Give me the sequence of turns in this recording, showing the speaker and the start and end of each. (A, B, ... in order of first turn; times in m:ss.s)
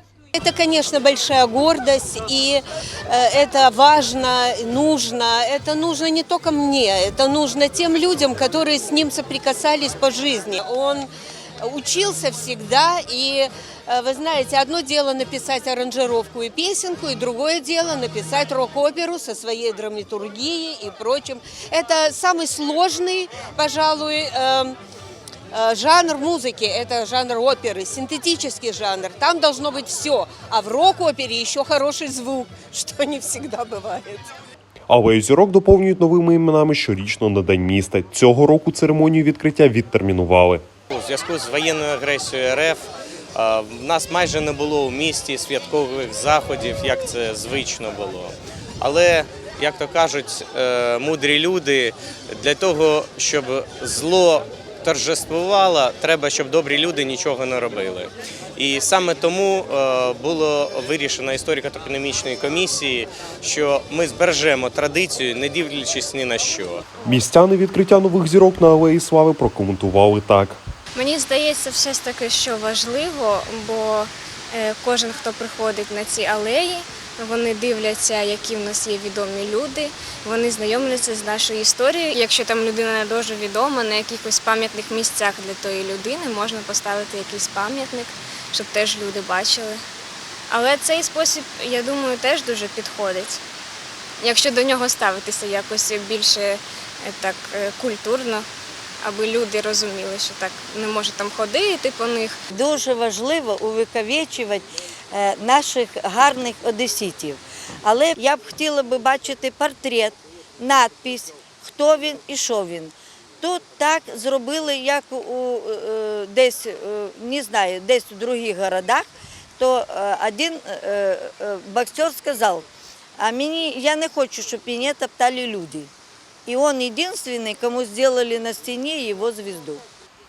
0:00.3-0:11.1 A
0:11.6-0:24.8 A
0:25.5-0:34.3 A
0:34.9-0:40.6 B
0:40.9-1:06.8 C
1:07.1-1:10.6 B
1:11.0-1:29.8 D
1:30.5-1:33.4 D
1:34.2-1:38.4 D
1:39.0-1:42.4 D
1:42.5-1:59.1 E
1:59.6-2:02.7 E
2:03.2-2:05.9 E
2:06.5-2:09.8 E